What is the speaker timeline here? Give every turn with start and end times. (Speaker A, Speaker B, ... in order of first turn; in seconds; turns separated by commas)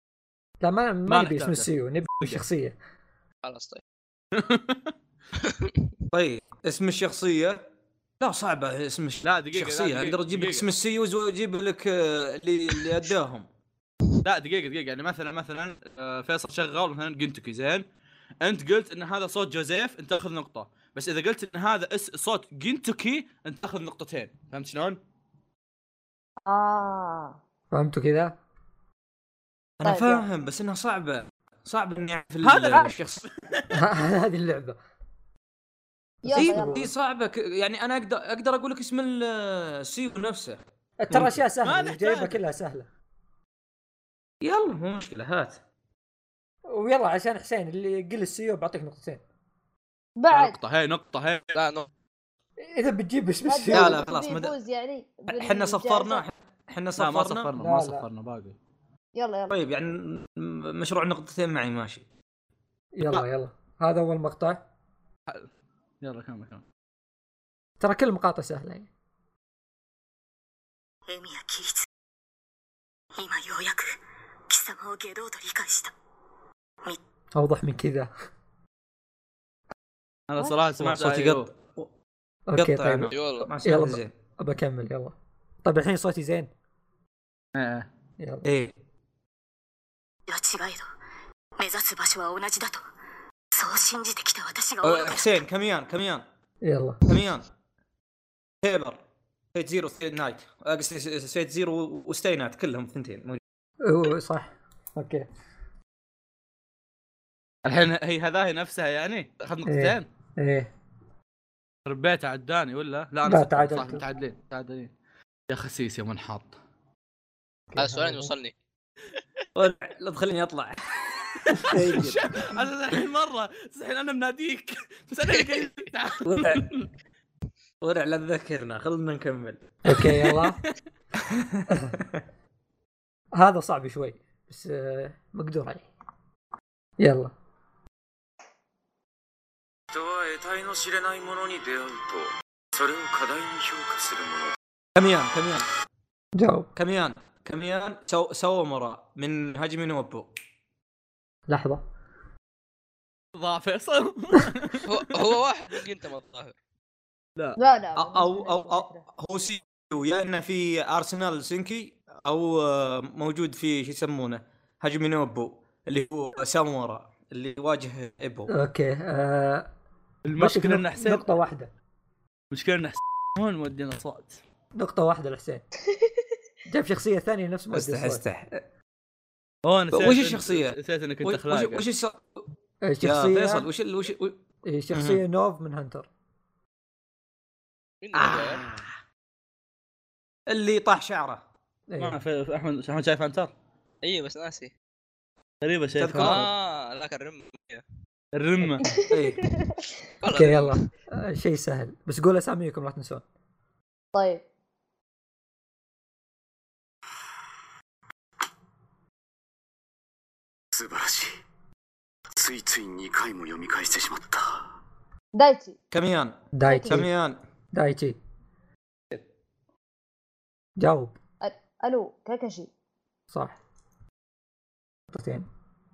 Speaker A: 0.6-2.8, Speaker B: 1.1-2.4, Speaker C: 3.4-3.8, Speaker B: 4.3-4.9, Speaker C: 5.4-5.9, Speaker D: 6.1-7.6, Speaker D: 8.2-13.4, Speaker B: 9.2-10.7, Speaker B: 14.2-17.9, Speaker B: 18.4-25.0, Speaker E: 26.5-27.4, Speaker A: 27.7-28.4, Speaker D: 29.8-33.2, Speaker E: 29.8-30.3, Speaker B: 32.4-33.8, Speaker A: 33.7-34.8, Speaker A: 36.2-36.8, Speaker E: 36.2-36.9, Speaker D: 36.3-40.6, Speaker A: 41.0-42.9, Speaker B: 41.6-42.4, Speaker D: 44.4-45.6, Speaker A: 46.7-49.2, Speaker E: 50.2-50.6, Speaker B: 50.3-51.6, Speaker C: 51.5-51.9, Speaker A: 52.6-54.0, Speaker E: 53.5-56.2, Speaker D: 53.7-54.5, Speaker D: 55.3-57.5, Speaker B: 57.0-58.5, Speaker A: 57.5-58.0, Speaker E: 59.1-59.6, Speaker D: 59.5-62.0, Speaker A: 62.9-64.6, Speaker B: 66.0-66.6, Speaker A: 67.8-68.9, Speaker F: 71.1-71.8, Speaker F: 73.1-73.9, Speaker F: 74.5-75.9, Speaker A: 77.3-78.1, Speaker B: 80.3-81.5, Speaker D: 80.8-81.9, Speaker A: 82.5-86.5, Speaker D: 82.5-84.1, Speaker C: 83.1-83.5, Speaker B: 87.5-87.9, Speaker A: 88.2-88.5, Speaker D: 88.4-88.7, Speaker F: 90.3-90.9, Speaker F: 91.6-92.8, Speaker F: 93.5-95.3, Speaker D: 94.8-96.2, Speaker A: 96.6-97.2, Speaker D: 97.0-97.5, Speaker D: 98.6-99.0, Speaker D: 99.5-103.4, Speaker A: 103.8-105.3, Speaker B: 107.6-110.1, Speaker A: 109.6-110.7, Speaker B: 111.8-114.9, Speaker A: 113.2-114.0, Speaker B: 115.5-116.6, Speaker A: 117.7-118.3, Speaker C: 117.8-118.5, Speaker D: 119.5-120.8, Speaker D: 121.5-122.5, Speaker B: 121.5-126.9, Speaker D: 126.2-126.6, Speaker D: 127.8-130.3, Speaker A: 129.8-130.6, Speaker D: 131.3-132.2, Speaker A: 131.7-131.9, Speaker A: 133.3-135.9, Speaker A: 137.0-137.3, Speaker F: 139.9-144.4, Speaker D: 144.9-145.7, Speaker A: 146.3-146.7, Speaker D: 146.8-150.3, Speaker A: 151.5-151.8, Speaker B: 153.3-155.0, Speaker C: 154.8-156.5, Speaker E: 157.6-159.0, Speaker D: 157.9-168.5, Speaker A: 168.5-169.7, Speaker B: 170.2-171.3, Speaker A: 170.4-171.7, Speaker B: 172.5-174.4, Speaker A: 174.7-175.6, Speaker A: 176.7-178.2, Speaker D: 177.7-178.6, Speaker B: 179.6-181.8, Speaker D: 179.9-182.4, Speaker A: 182.8-183.7, Speaker D: 183.0-184.4, Speaker A: 184.7-186.1, Speaker D: 184.9-185.2, Speaker C: 188.0-188.6, Speaker D: 188.1-188.9, Speaker D: 190.5-191.4, Speaker A: 191.9-192.2, Speaker B: 192.0-193.5, Speaker C: 194.0-194.7, Speaker B: 195.6-196.5, Speaker D: 196.0-196.5, Speaker C: 196.2-197.8, Speaker B: 198.3-198.9, Speaker E: 198.8-199.8, Speaker D: 199.1-199.4, Speaker C: 200.2-200.8, Speaker A: 200.3-203.2, Speaker E: 204.1-204.4, Speaker F: 210.7-211.3, Speaker F: 212.4-214.5, Speaker E: 215.3-215.8, Speaker D: 215.9-217.4, Speaker A: 216.5-217.1, Speaker E: 216.6-217.0, Speaker A: 217.7-218.2, Speaker A: 220.8-221.2, Speaker E: 221.4-222.7, Speaker A: 223.3-223.6, Speaker A: 225.1-225.5